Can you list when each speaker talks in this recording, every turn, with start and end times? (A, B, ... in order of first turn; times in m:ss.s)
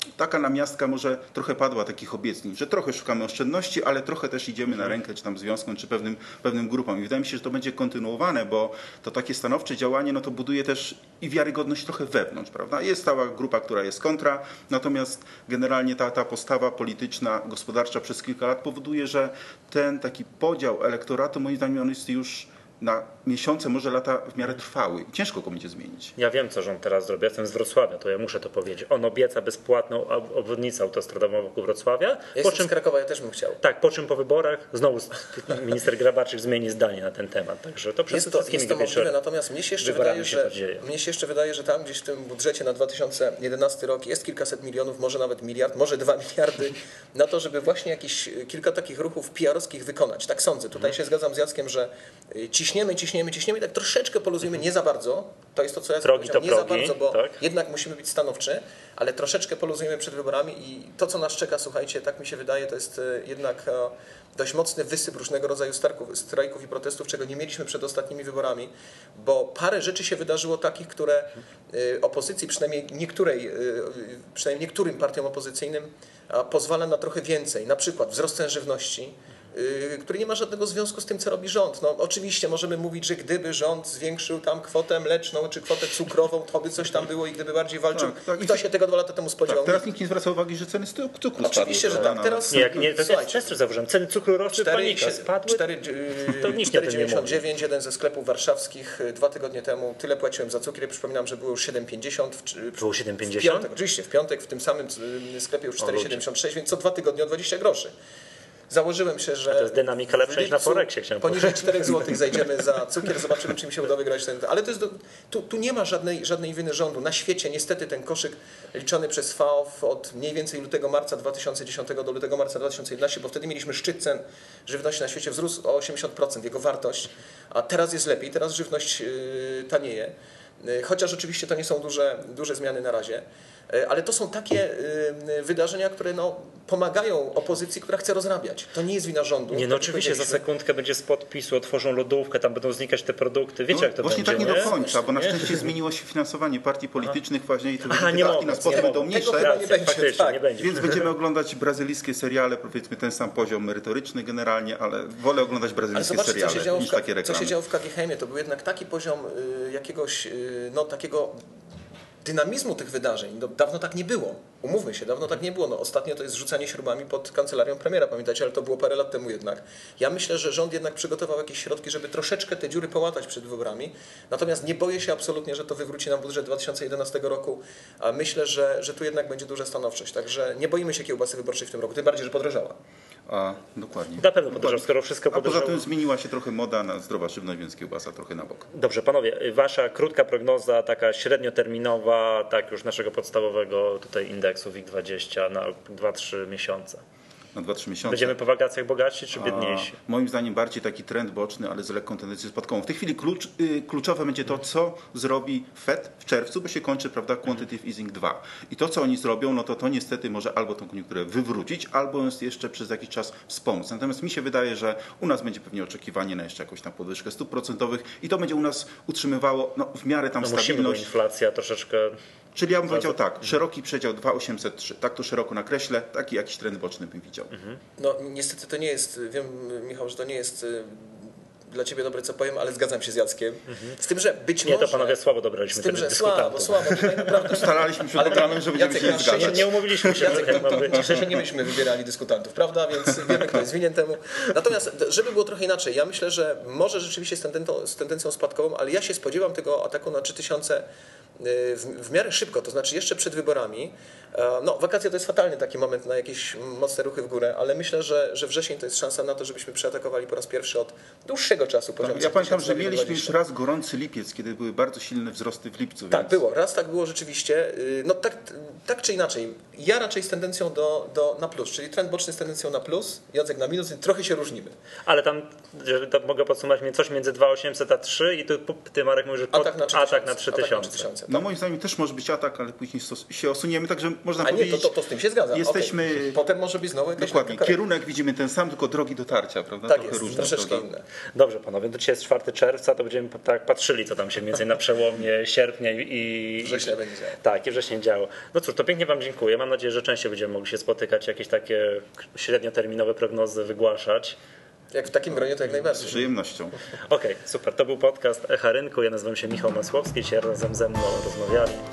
0:00.2-0:26.1 A
0:26.2-0:32.7 B
0:32.4-0:33.6 C
0:33.6-0:39.1 B
0:38.1-1:29.8 C
0:39.8-0:40.8 B
0:56.0-0:57.4 B
1:27.9-1:28.6 A
1:29.4-1:32.9 A
1:31.4-1:33.5 C
1:32.0-1:35.7 B
1:34.5-1:47.9 C
1:36.3-1:37.4 B
1:42.8-1:43.7 B
1:45.8-1:46.2 B
1:48.7-2:20.4 C
1:49.5-1:51.9 B
2:19.5-2:25.6 B
2:23.7-2:29.5 A
2:24.3-2:25.1 C
2:27.8-2:31.1 B
2:28.2-2:30.4 C
2:30.6-2:37.5 A
2:35.9-2:41.4 C
2:42.2-3:02.8 C
3:03.3-3:08.6 A
3:04.2-3:05.9 B
3:08.7-3:17.0 B
3:17.5-3:18.4 A
3:18.1-3:19.9 B
3:19.3-3:41.1 A
3:40.4-3:42.2 B
3:42.6-3:47.5 A
3:42.9-3:43.1 B
3:48.0-3:55.2 C
3:54.6-3:57.4 B
3:55.7-4:10.8 C
3:57.4-4:01.1 A
3:59.0-4:01.4 B
4:11.4-4:23.3 C
4:22.0-4:26.4 A
4:26.1-4:34.7 C
4:35.0-4:41.1 B
4:39.5-4:41.4 C
4:41.3-4:44.9 A
4:44.4-4:47.8 C
4:45.5-4:46.4 A
4:47.2-4:50.8 A
4:49.9-4:51.0 C
4:51.3-4:56.9 B
4:56.6-4:57.4 C
4:57.4-5:04.4 B
5:04.9-5:06.2 C
5:05.8-5:06.7 A
5:07.1-5:11.8 B